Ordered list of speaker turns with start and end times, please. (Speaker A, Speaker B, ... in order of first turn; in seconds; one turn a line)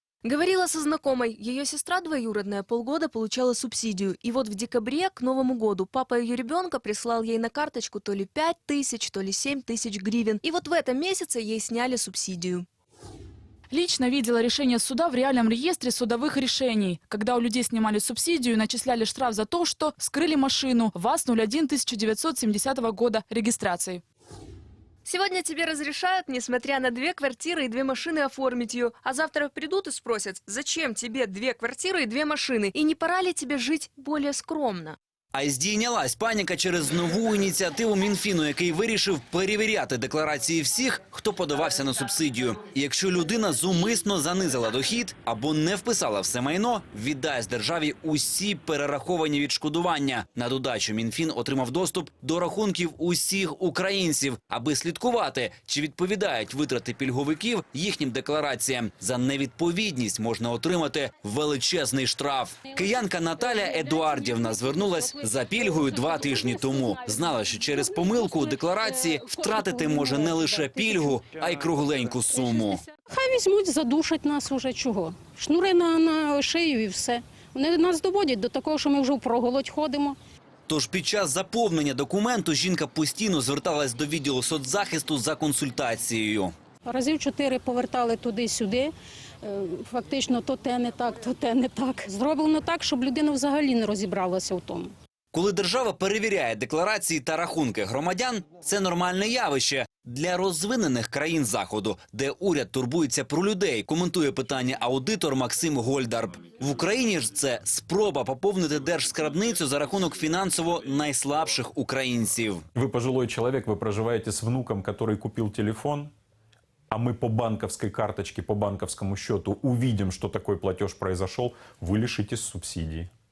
Speaker A: 0.2-12.7
Speaker B: 13.7-24.0
Speaker A: 25.0-35.0
Speaker C: 35.3-72.8
Speaker D: 63.6-65.2
Speaker D: 65.8-66.8
Speaker D: 68.1-71.2
Speaker D: 73.0-80.2
Speaker C: 80.7-86.5
Speaker D: 86.9-88.9
Speaker D: 89.4-94.9
Speaker C: 95.3-112.6
Speaker E: 112.8-116.1
Speaker E: 116.9-123.1